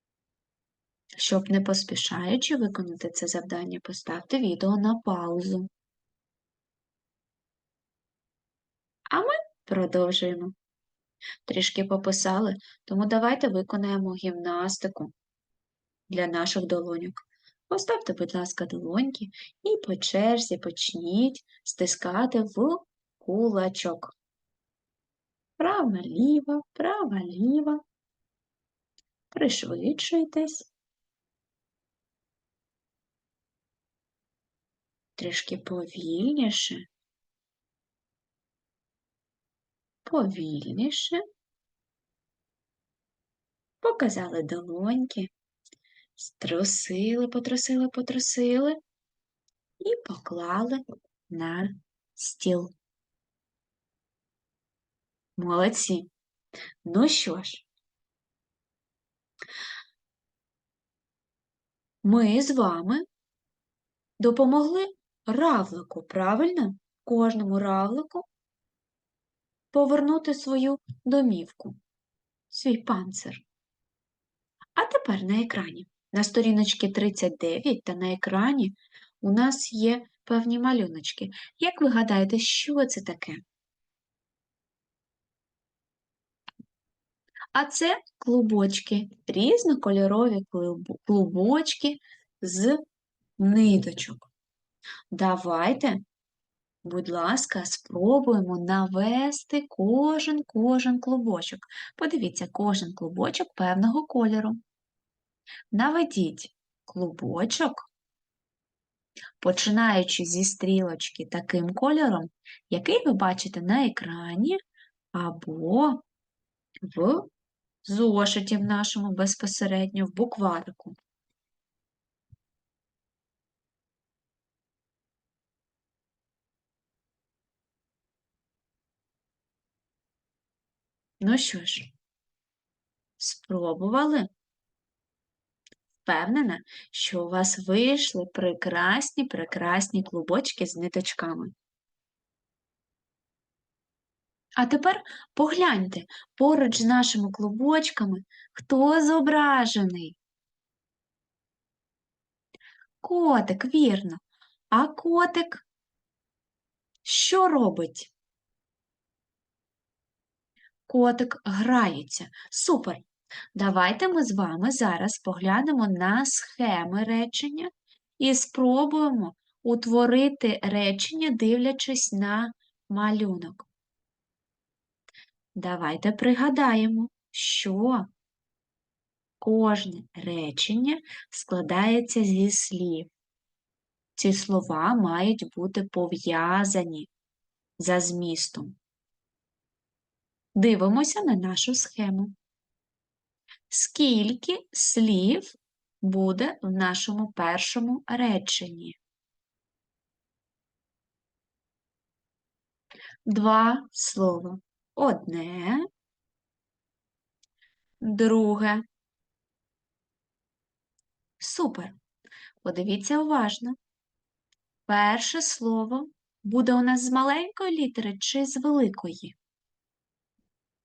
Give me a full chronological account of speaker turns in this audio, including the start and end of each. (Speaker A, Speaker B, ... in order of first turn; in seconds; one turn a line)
Speaker A: 1.2-5.7
Speaker A: 9.1-10.6
Speaker A: 11.5-15.1
Speaker A: 16.1-24.1
Speaker A: 25.6-27.8
Speaker A: 29.3-30.7
Speaker A: 35.2-36.9
Speaker A: 40.0-41.2
Speaker A: 43.8-45.3
Speaker A: 46.2-48.8
Speaker A: 49.8-52.7
Speaker A: 55.4-56.1
Speaker A: 56.8-57.7
Speaker A: 62.0-63.0
Speaker A: 64.2-68.3
Speaker A: 69.7-71.8
Speaker A: 72.5-73.4
Speaker A: 74.8-83.4
Speaker A: 87.5-92.8
Speaker A: 93.4-94.3
Speaker A: 95.1-96.0
Speaker A: 96.8-104.6
Speaker A: 105.7-107.9
Speaker A: 109.4-114.6
Speaker A: 115.1-116.0
Speaker A: 116.8-117.3
Speaker A: 117.8-121.0
Speaker A: 131.2-131.9
Speaker A: 133.2-134.3
Speaker A: 136.0-141.5
Speaker A: 144.6-150.2
Speaker A: 153.0-154.2
Speaker A: 154.7-155.7
Speaker A: 157.1-158.1
Speaker A: 160.9-163.0
Speaker A: 163.6-173.7
Speaker A: 175.6-178.1
Speaker A: 179.4-183.1
Speaker A: 184.2-187.1
Speaker A: 187.8-188.8
Speaker A: 190.6-192.3
Speaker A: 193.7-199.0
Speaker A: 203.3-205.9
Speaker A: 208.0-208.8
Speaker A: 211.4-211.9
Speaker A: 212.6-213.8
Speaker A: 214.9-219.4